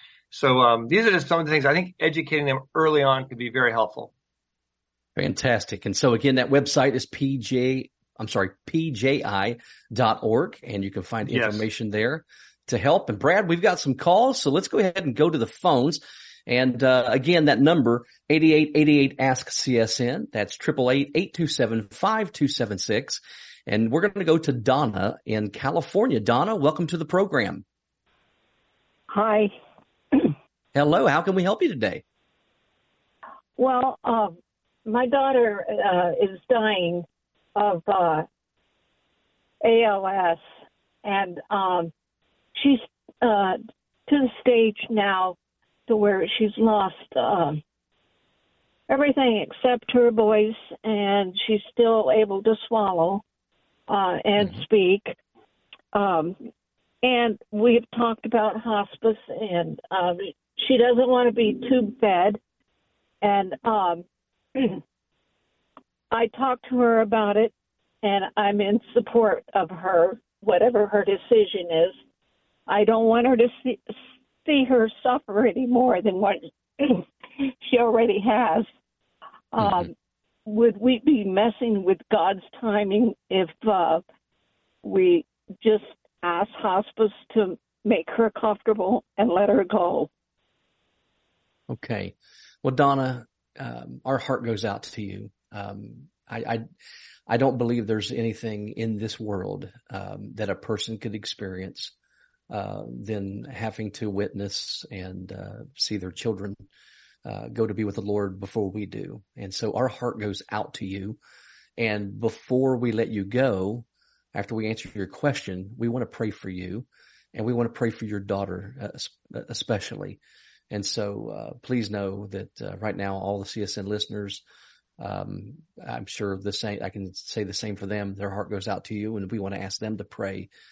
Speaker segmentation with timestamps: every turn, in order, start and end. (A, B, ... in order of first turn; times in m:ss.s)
0:00.3-0:04.1 A
0:05.2-0:27.6 B
0:11.3-0:11.6 A
0:29.1-0:29.5 C
0:30.7-0:32.0 B
0:33.6-0:34.4 C
0:34.9-0:38.3 C
0:39.6-0:40.4 C
0:41.0-0:41.9 C
0:42.6-0:45.4 C
0:45.9-0:47.6 C
0:48.9-0:53.2 C
0:53.9-0:55.2 C
0:55.9-0:56.4 C
0:57.0-1:02.4 C
1:03.2-1:04.0 C
1:04.6-1:04.8 C
1:06.1-1:12.0 C
1:12.7-1:18.7 C
1:19.5-1:19.9 C
1:20.5-1:24.0 C
1:24.8-1:30.1 C
1:31.7-1:36.6 B
1:37.3-1:41.9 B
1:42.5-1:46.6 B
1:47.2-1:51.2 B
1:51.8-2:00.2 B
2:00.7-2:04.4 B
2:05.0-2:10.5 B